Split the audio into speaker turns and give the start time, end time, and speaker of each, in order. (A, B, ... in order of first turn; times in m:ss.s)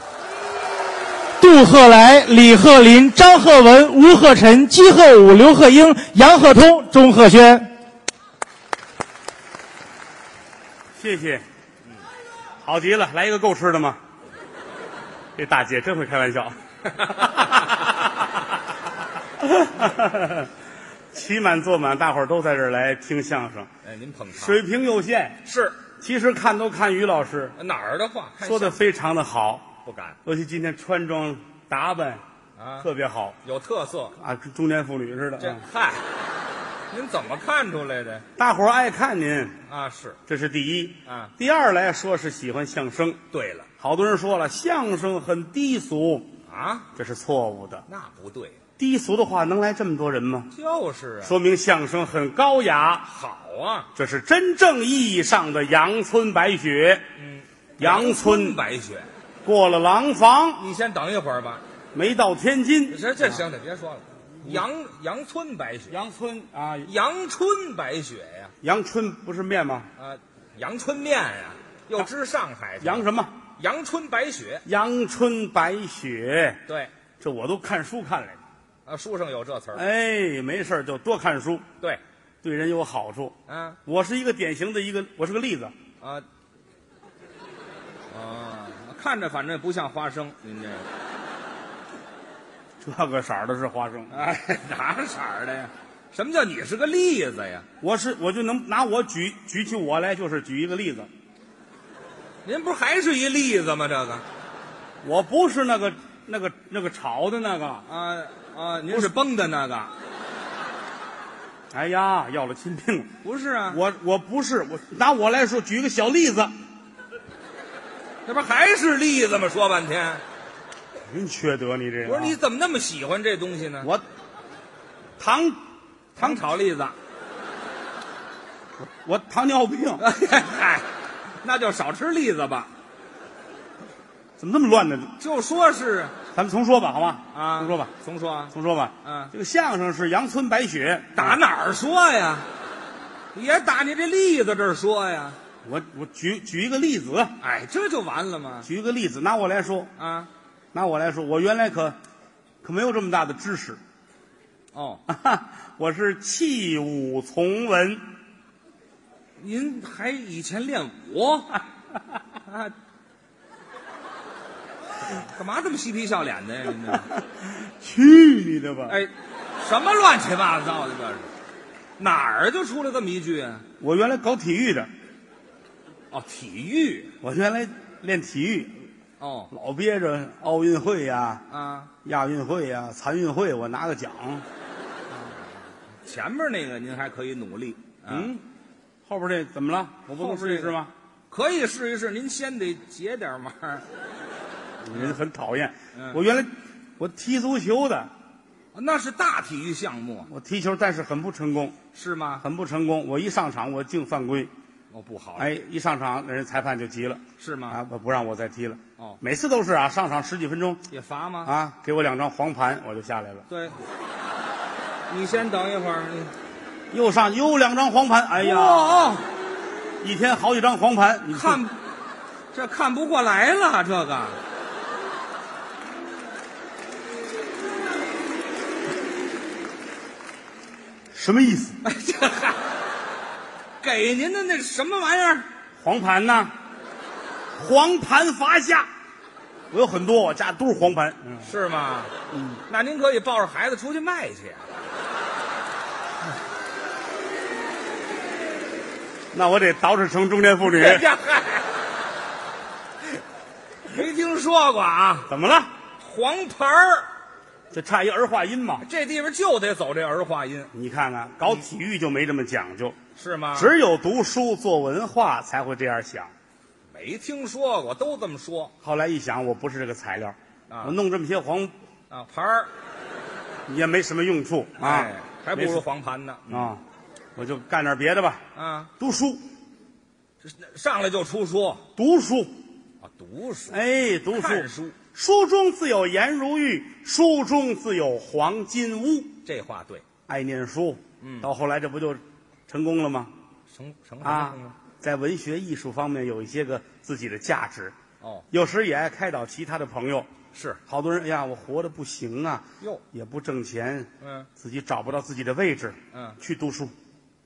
0:01.4-0:07.7 A
0:11.0-0:11.5 B
0:12.6-0:14.0 B
0:15.4-0:18.4 B
0:19.4-0:20.5 B
0:21.1-0:23.7 B
0:23.8-0:24.6 C
0:24.3-0:27.6 B
0:25.5-0:25.8 C
0:27.6-0:28.8 C
0:28.4-0:29.7 B
0:29.8-0:30.2 C
0:30.2-0:32.2 B
0:32.6-0:32.9 C
0:32.8-0:33.4 B
0:33.4-0:34.2 C
0:34.2-0:35.6 B
0:35.4-0:36.0 C
0:36.9-0:38.2 C
0:38.4-0:39.6 B
0:39.7-0:40.2 C
0:40.3-0:43.2 B
0:41.1-0:41.3 C
0:43.3-0:43.7 C
0:43.8-0:46.3 B
0:46.5-0:46.9 C
0:47.0-0:47.9 B
0:47.9-0:48.6 C
0:48.8-0:50.5 B
0:50.5-0:51.4 C
0:51.2-0:53.1 B
0:53.1-0:53.9 C
0:54.0-0:57.0 B
0:57.2-0:59.1 C
0:57.8-0:58.6 B
0:59.4-1:00.6 B
1:00.6-1:01.6 C
1:01.9-1:03.5 B
1:02.9-1:06.0 C
1:05.9-1:06.9 B
1:06.9-1:08.5 C
1:08.6-1:09.9 B
1:10.0-1:14.6 C
1:12.8-1:13.4 B
1:14.7-1:16.6 B
1:17.2-1:18.4 B
1:18.9-1:19.8 C
1:19.7-1:21.7 B
1:22.4-1:25.7 B
1:23.5-1:23.8 C
1:28.1-1:30.9 C
1:32.8-1:34.2 B
1:34.1-1:37.7 C
1:37.8-1:41.1 B
1:42.4-1:44.2 C
1:45.0-1:47.9 B
1:47.9-1:49.9 C
1:51.7-1:53.1 B
1:53.2-1:53.8 C
1:53.7-1:56.5 B
1:58.3-2:00.2 C
2:01.1-2:02.4 B
2:02.0-2:03.9 C
2:05.2-2:05.6 B
2:06.2-2:07.0 C
2:06.2-2:06.4 B
2:08.8-2:10.0 B
2:10.0-2:10.9 C
2:11.4-2:12.7 C
2:14.4-2:15.1 B
2:15.2-2:16.1 C
2:16.3-2:17.9 B
2:17.3-2:18.5 C
2:18.5-2:21.4 B
2:19.0-2:19.3 C
2:21.2-2:22.5 C
2:23.3-2:25.4 C
2:25.6-2:27.4 B
2:27.4-2:28.7 C
2:28.6-2:29.9 B
2:30.0-2:30.3 C
2:30.7-2:32.0 B
2:32.6-2:33.8 B
2:34.7-2:35.0 C
2:35.1-2:38.1 B
2:39.4-2:41.6 C
2:42.5-2:42.8 C
2:45.1-2:47.1 C
2:47.6-2:49.0 B
2:48.9-2:51.3 C
2:52.0-2:53.6 C
2:53.8-2:54.9 B
2:56.1-2:57.1 C
2:57.2-2:58.9 B
2:59.2-2:59.5 C
2:59.5-3:01.4 B
3:01.5-3:01.9 C
3:02.0-3:04.4 B
3:06.0-3:08.3 C
3:08.1-3:08.4 B
3:09.1-3:10.9 B
3:10.1-3:10.8 C
3:11.3-3:13.8 C
3:14.8-3:18.1 B
3:16.0-3:16.2 C
3:18.7-3:20.3 C
3:20.3-3:21.8 B
3:21.9-3:22.4 C
3:22.4-3:24.5 B
3:24.9-3:25.5 C
3:25.4-3:30.8 B
3:27.4-3:27.8 C
3:30.9-3:31.5 C
3:31.4-3:33.5 B
3:33.5-3:33.8 C
3:35.1-3:36.3 C
3:36.9-3:39.2 B
3:38.4-3:39.3 C
3:40.0-3:41.6 B
3:41.3-3:41.8 C
3:42.5-3:44.4 C
3:51.1-3:51.8 B
3:51.8-3:52.6 C
3:53.8-3:55.5 C
3:55.8-3:56.5 B
3:57.6-3:58.9 B
3:59.7-4:01.5 B
4:01.4-4:02.1 C
4:02.3-4:02.6 B
4:02.7-4:04.6 C
4:09.3-4:11.1 B
4:10.6-4:11.7 C
4:13.9-4:15.3 C
4:15.3-4:15.7 B
4:16.0-4:17.1 C
4:17.7-4:18.8 B
4:18.8-4:20.7 C
4:20.7-4:23.0 B
4:23.2-4:23.7 C
4:23.5-4:26.3 B
4:26.9-4:28.7 C
4:28.8-4:31.7 B
4:30.7-4:31.0 C
4:32.1-4:32.7 C
4:33.7-4:35.8 B
4:34.8-4:36.8 C
4:36.5-4:36.8 B
4:37.4-4:38.4 B
4:38.6-4:38.9 C
4:39.0-4:39.4 B
4:40.4-4:41.8 C
4:42.0-4:42.5 B
4:43.0-4:43.8 C
4:43.7-4:49.3 B
4:44.3-4:45.0 C
4:49.5-4:50.0 C
4:50.3-4:53.3 B
4:51.2-4:51.5 C
4:53.7-4:54.7 C
4:54.2-4:58.0 B
4:58.2-4:58.5 C
4:58.5-5:00.3 B
5:00.5-5:00.8 C
5:00.9-5:06.9 B
5:04.2-5:04.5 C
5:06.1-5:06.4 C